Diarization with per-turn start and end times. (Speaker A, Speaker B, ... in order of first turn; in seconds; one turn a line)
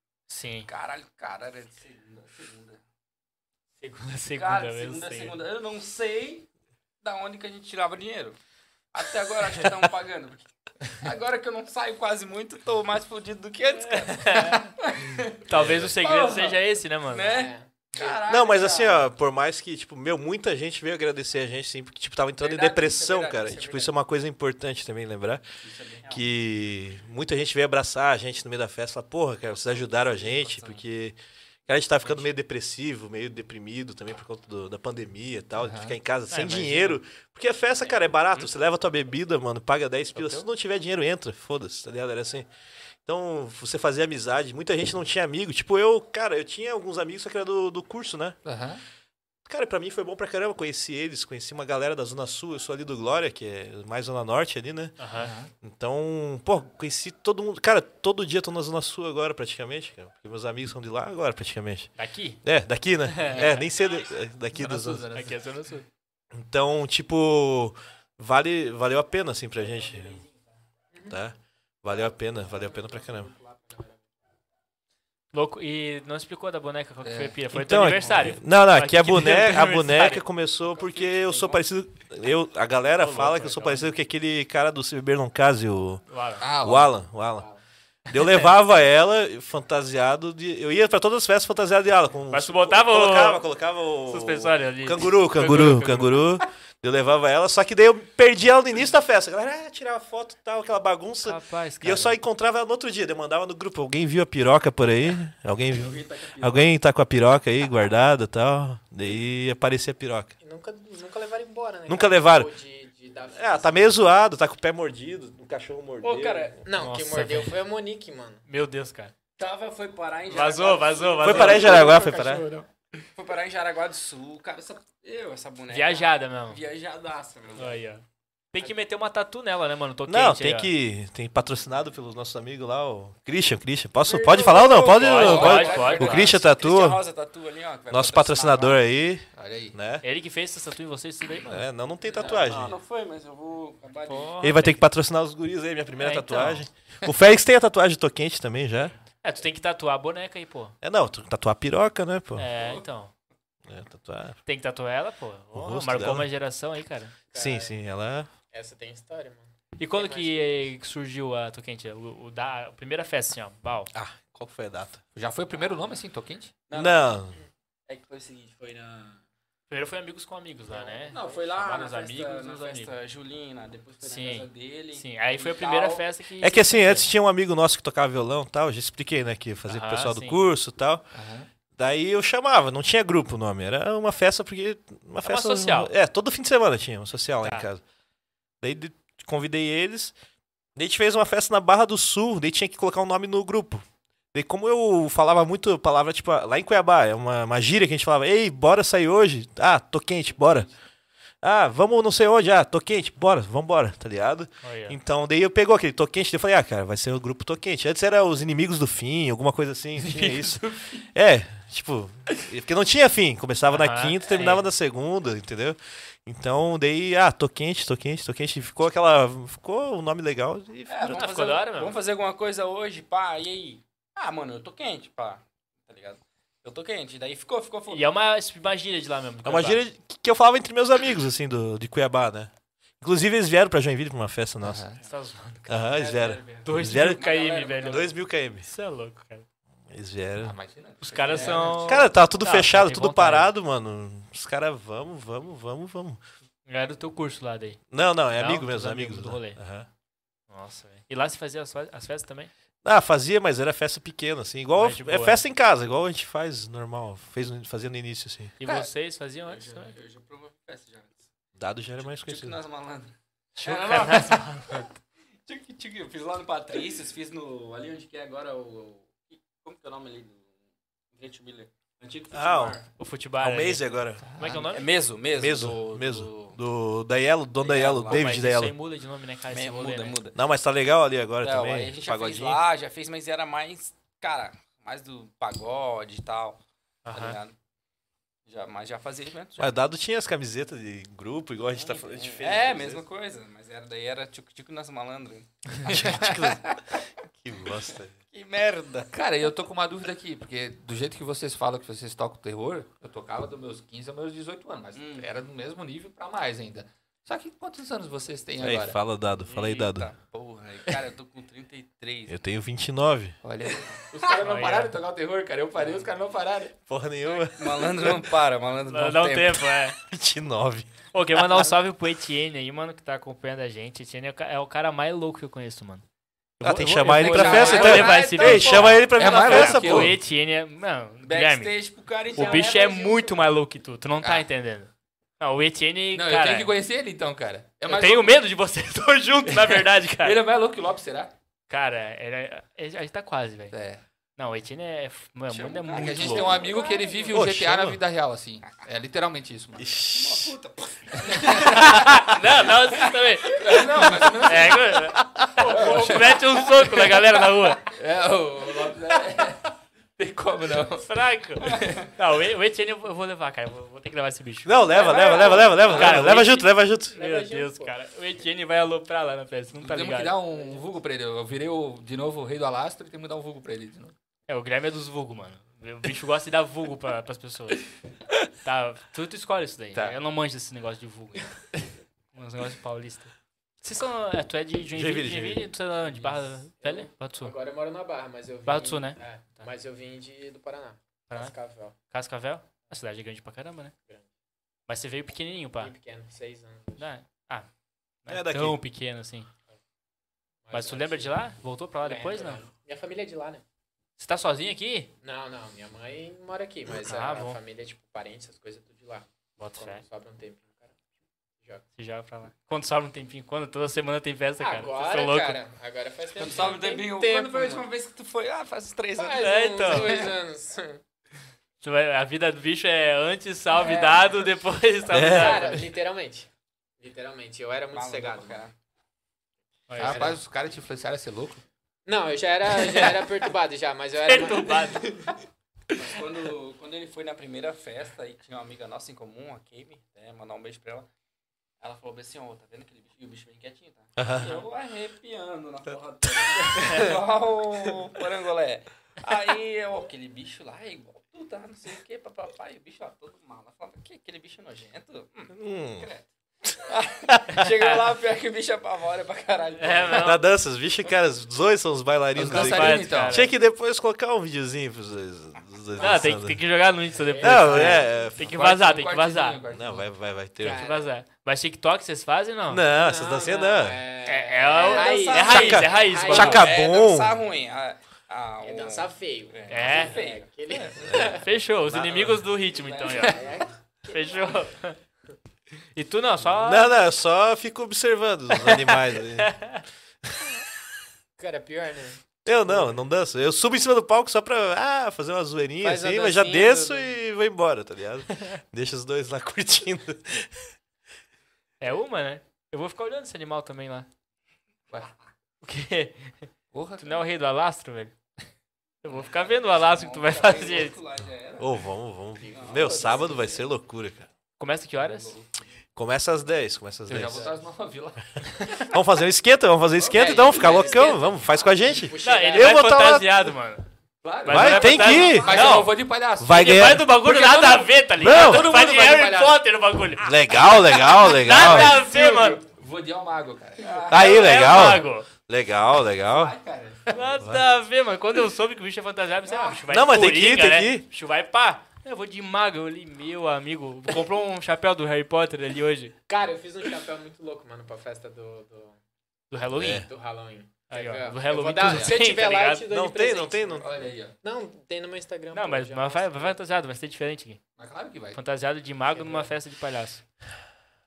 Speaker A: 0.3-0.7
Speaker B: 0.7-2.8
Speaker A: 3.8-5.4
Speaker B: 4.3-6.5
Speaker B: 7.0-8.4
Speaker B: 8.9-15.4
Speaker A: 13.8-14.7
Speaker A: 15.4-17.3
Speaker C: 15.5-15.9
Speaker B: 16.0-19.1
Speaker D: 17.2-18.2
Speaker C: 18.3-25.4
Speaker B: 22.4-23.9
Speaker B: 25.6-26.2
Speaker C: 26.1-42.5
Speaker B: 29.9-30.8
Speaker E: 35.6-36.0
Speaker A: 36.3-37.0
Speaker E: 40.2-40.4
Speaker C: 43.0-48.4
Speaker E: 48.4-48.8
Speaker C: 49.5-55.0
Speaker A: 55.0-55.3
Speaker E: 55.1-55.5
Speaker C: 55.6-61.9
Speaker A: 62.0-62.4
Speaker C: 62.4-65.1
Speaker A: 63.1-63.7
Speaker E: 64.5-65.4
Speaker A: 65.1-65.8
Speaker C: 66.3-70.2
Speaker D: 70.9-71.2
Speaker C: 71.1-73.3
Speaker D: 72.4-74.0
Speaker A: 75.3-80.2
Speaker E: 77.0-77.4
Speaker C: 77.5-86.0
Speaker B: 80.7-81.6
Speaker A: 83.0-83.9
Speaker A: 86.1-86.5
Speaker E: 86.4-86.9
Speaker C: 86.6-87.5
Speaker C: 88.1-110.3
Speaker A: 88.2-88.4
Speaker A: 92.3-93.4
Speaker A: 94.1-96.2
Speaker A: 101.2-102.2
Speaker B: 105.7-106.7
Speaker D: 110.4-113.9
Speaker C: 111.9-112.5
Speaker C: 113.3-116.5
Speaker B: 116.0-116.6
Speaker D: 116.6-118.4
Speaker A: 116.7-117.5
Speaker A: 118.5-119.1
Speaker B: 119.4-121.9
Speaker A: 120.3-121.8
Speaker C: 121.2-122.5
Speaker D: 121.4-122.7
Speaker B: 123.2-127.8
Speaker A: 125.7-126.6
Speaker A: 127.6-130.7
Speaker C: 130.1-137.0
Speaker B: 134.1-138.8
Speaker A: 134.9-136.3
Speaker C: 137.9-140.0
Speaker E: 139.3-139.8
Speaker A: 140.0-141.7
Speaker C: 141.5-142.8
Speaker B: 142.1-144.4
Speaker A: 144.1-144.8
Speaker C: 144.4-148.9
Speaker A: 146.0-146.6
Speaker A: 149.2-150.8
Speaker C: 150.8-152.5
Speaker A: 152.4-153.1
Speaker B: 152.6-152.8
Speaker C: 153.7-154.4
Speaker A: 154.4-157.1
Speaker C: 155.5-156.3
Speaker D: 157.3-157.7
Speaker C: 157.3-158.3
Speaker D: 158.5-160.6
Speaker A: 159.8-163.9
Speaker C: 163.9-165.0
Speaker E: 165.1-166.5
Speaker B: 166.7-167.1
Speaker C: 166.7-167.4
Speaker B: 167.9-169.2
Speaker A: 169.7-172.9
Speaker B: 170.7-176.1
Speaker A: 174.0-177.1
Speaker C: 176.4-181.0
Speaker A: 179.7-180.4
Speaker E: 181.1-181.5
Speaker C: 181.8-187.8
Speaker A: 185.2-185.9
Speaker C: 188.6-190.1
Speaker C: 190.8-200.7
Speaker C: 201.4-221.2
Speaker A: 204.6-205.0
Speaker A: 210.0-210.7
Speaker A: 213.7-214.7
Speaker B: 220.9-228.1
Speaker A: 221.0-222.0
Speaker A: 227.9-229.8
Speaker C: 229.4-234.8
Speaker E: 234.6-235.0
Speaker A: 235.0-236.0
Speaker C: 235.7-237.2
Speaker B: 235.9-238.1
Speaker A: 236.6-239.4
Speaker C: 237.9-238.7
Speaker C: 239.9-240.6
Speaker E: 240.4-242.0
Speaker A: 241.0-243.5
Speaker B: 241.1-241.9
Speaker C: 241.8-246.2
Speaker A: 246.7-247.8
Speaker C: 247.9-249.9
Speaker A: 248.3-249.6
Speaker A: 250.5-252.5
Speaker C: 252.8-258.5
Speaker A: 254.8-255.4
Speaker A: 258.6-259.9
Speaker B: 259.5-261.3
Speaker C: 261.6-262.6
Speaker B: 262.0-264.8
Speaker A: 263.6-264.9
Speaker B: 265.4-270.5
Speaker B: 271.1-272.8
Speaker C: 272.3-272.8
Speaker A: 273.0-274.9
Speaker C: 273.4-274.2
Speaker E: 274.4-274.6
Speaker B: 274.7-276.6
Speaker C: 275.3-278.7
Speaker B: 277.6-278.4
Speaker A: 278.1-280.2
Speaker B: 279.5-280.4
Speaker C: 280.3-282.6
Speaker B: 281.4-286.6
Speaker A: 287.0-287.4
Speaker B: 287.1-287.5
Speaker B: 288.4-289.7
Speaker C: 289.6-293.0
Speaker B: 291.7-296.4
Speaker C: 295.9-298.1
Speaker E: 295.9-296.5
Speaker B: 298.3-299.1
Speaker E: 299.1-309.0
Speaker B: 304.9-305.3
Speaker C: 308.6-310.1
Speaker B: 309.4-312.4
Speaker C: 312.3-313.3
Speaker E: 313.4-316.7
Speaker B: 313.7-314.4
Speaker A: 314.4-314.9
Speaker B: 315.8-316.1
Speaker C: 316.9-318.3
Speaker B: 317.4-319.7
Speaker A: 318.9-320.0
Speaker C: 320.1-320.9
Speaker A: 321.1-326.0
Speaker A: 326.6-331.8
Speaker C: 326.6-330.2
Speaker B: 327.1-329.1
Speaker E: 327.2-330.1
Speaker B: 331.2-333.4
Speaker A: 332.3-336.7
Speaker E: 336.1-338.3
Speaker A: 337.9-340.4
Speaker E: 339.5-341.3
Speaker A: 341.7-343.7
Speaker E: 343.7-344.0
Speaker A: 344.4-346.6
Speaker B: 345.5-347.4
Speaker E: 345.9-349.9
Speaker C: 346.2-346.6
Speaker C: 347.3-348.0
Speaker C: 349.8-350.5
Speaker B: 350.1-351.9
Speaker E: 351.1-352.0
Speaker A: 351.4-357.9
Speaker E: 353.6-355.0
Speaker B: 353.7-354.7
Speaker C: 355.2-355.5
Speaker E: 355.6-357.2
Speaker D: 355.7-356.2
Speaker E: 357.8-361.1
Speaker A: 361.0-364.8
Speaker E: 361.6-362.0
Speaker C: 364.6-367.1
Speaker B: 364.9-366.4
Speaker A: 365.8-370.4
Speaker D: 367.1-367.9
Speaker E: 369.8-374.1
Speaker A: 374.5-377.9
Speaker A: 378.6-387.5
Speaker C: 384.9-385.7
Speaker D: 386.8-392.0
Speaker A: 388.6-389.7
Speaker A: 391.3-391.5
Speaker A: 392.1-393.9
Speaker A: 394.9-395.9
Speaker D: 395.8-397.1
Speaker A: 397.0-397.7
Speaker A: 398.2-399.5
Speaker C: 398.3-398.8
Speaker D: 400.6-401.4
Speaker A: 400.7-402.6
Speaker D: 402.0-403.6
Speaker A: 404.2-405.1
Speaker D: 405.2-411.0
Speaker A: 407.0-407.6
Speaker A: 409.6-410.0
Speaker D: 411.6-411.8
Speaker A: 412.0-415.6
Speaker D: 414.6-417.9
Speaker B: 416.4-420.3
Speaker D: 419.1-421.0
Speaker A: 419.4-420.2
Speaker A: 421.8-425.9
Speaker D: 423.7-424.4
Speaker C: 425.1-425.7
Speaker D: 425.2-426.5
Speaker D: 427.0-428.6
Speaker B: 427.9-428.7
Speaker A: 429.9-430.4
Speaker D: 429.9-430.4
Speaker E: 430.0-431.6
Speaker D: 432.1-435.4
Speaker A: 432.8-433.2
Speaker A: 434.2-435.3
Speaker B: 435.9-441.1
Speaker B: 441.8-456.3
Speaker C: 444.2-444.5
Speaker A: 446.7-447.0
Speaker D: 446.8-447.1
Speaker C: 455.5-456.1
Speaker B: 456.8-460.3
Speaker C: 457.3-457.6
Speaker A: 459.8-460.4
Speaker C: 460.1-466.6
Speaker E: 462.4-463.4
Speaker A: 462.4-463.5
Speaker A: 466.0-469.6
Speaker D: 467.1-467.9
Speaker C: 467.4-468.6
Speaker E: 467.5-470.1
Speaker C: 469.7-470.9
Speaker D: 470.6-471.1
Speaker A: 470.6-472.8
Speaker C: 472.7-474.0
Speaker D: 472.9-476.8
Speaker A: 474.2-476.7
Speaker B: 474.7-481.1
Speaker C: 475.4-477.4
Speaker D: 478.6-481.5
Speaker A: 479.7-480.2
Speaker C: 481.1-481.4
Speaker A: 481.1-483.5
Speaker C: 481.9-482.4
Speaker B: 482.4-483.6
Speaker D: 483.1-484.6
Speaker A: 484.1-485.0
Speaker A: 485.9-486.9
Speaker C: 486.6-489.6
Speaker A: 488.6-489.8
Speaker D: 491.4-493.0
Speaker C: 492.4-500.7
Speaker D: 495.8-497.1
Speaker A: 501.8-504.1
Speaker A: 505.6-508.1
Speaker E: 506.7-507.2
Speaker A: 509.0-511.0
Speaker B: 509.1-511.9
Speaker C: 511.6-514.3
Speaker D: 512.4-513.3
Speaker B: 512.5-513.6
Speaker A: 514.6-515.3
Speaker B: 514.9-515.5
Speaker C: 516.0-517.4
Speaker E: 517.1-518.8
Speaker C: 518.9-523.5
Speaker D: 520.0-522.8
Speaker B: 520.4-520.8
Speaker A: 522.2-523.9
Speaker E: 524.2-529.5
Speaker A: 524.4-530.4
Speaker C: 524.5-525.5
Speaker B: 525.5-525.8
Speaker C: 526.4-527.1
Speaker C: 528.2-528.7
Speaker C: 530.2-532.0
Speaker E: 531.1-534.2
Speaker A: 531.2-532.6
Speaker B: 533.8-534.8
Speaker C: 534.1-536.5
Speaker A: 534.1-535.3
Speaker B: 536.3-537.2
Speaker A: 537.1-546.1
Speaker C: 537.4-537.7
Speaker D: 539.5-539.8
Speaker C: 539.9-541.0
Speaker D: 546.3-549.0
Speaker A: 549.5-550.1
Speaker C: 549.8-550.0
Speaker D: 549.8-556.5
Speaker A: 550.9-552.9
Speaker C: 552.9-553.9
Speaker E: 553.8-554.3
Speaker A: 555.5-557.6
Speaker E: 557.8-558.4
Speaker A: 558.3-560.2
Speaker D: 559.1-559.5